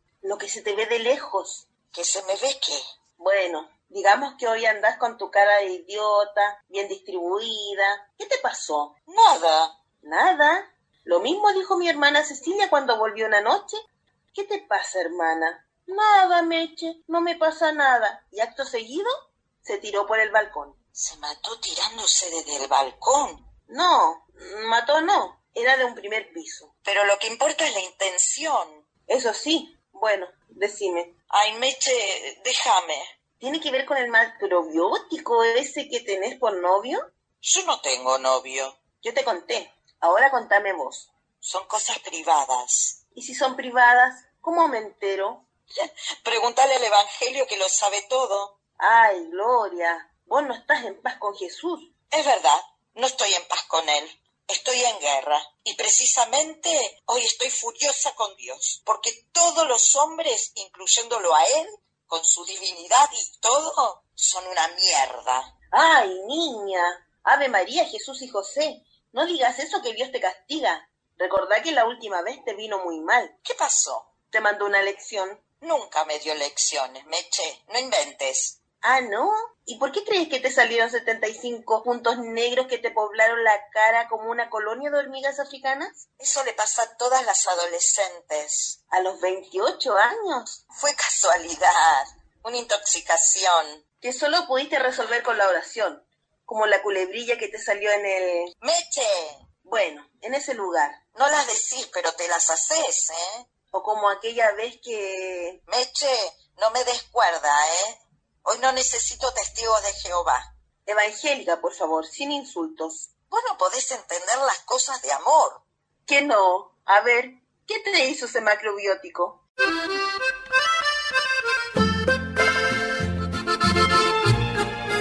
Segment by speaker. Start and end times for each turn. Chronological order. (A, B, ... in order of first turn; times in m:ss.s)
0:00.2-0:01.7 A
0:01.9-0:02.8 B
0:03.2-0:09.0 A
0:09.1-0:09.8 B
0:10.0-0:13.8 A
0:14.3-0:20.8 A
0:20.9-0:23.5 B
0:23.7-0:26.7 A
0:26.8-0:28.8 B
0:29.1-0:31.1 A
0:31.3-0:33.1 B
0:33.4-0:37.0 A
0:37.4-0:38.8 B
0:39.0-0:41.1 A
0:41.4-0:43.0 B
0:43.1-0:45.4 A
0:45.7-0:48.5 B
0:48.8-0:51.9 A
0:52.1-1:05.5 B
1:05.7-1:13.4 A
1:13.4-1:14.1 B
1:14.3-1:15.5 A
1:15.6-1:18.6 B
1:18.8-1:26.1 A
1:26.2-1:28.8 B
1:28.9-1:30.6 A
1:30.7-1:33.8 B
1:34.0-1:38.5 A
1:38.6-1:39.4 B
1:39.6-1:41.0 A
1:41.2-1:43.5 B
1:43.7-1:45.6 A
1:45.7-1:50.5 B
1:50.9-1:53.1 A
1:53.3-1:55.6 B
1:56.1-1:59.4 A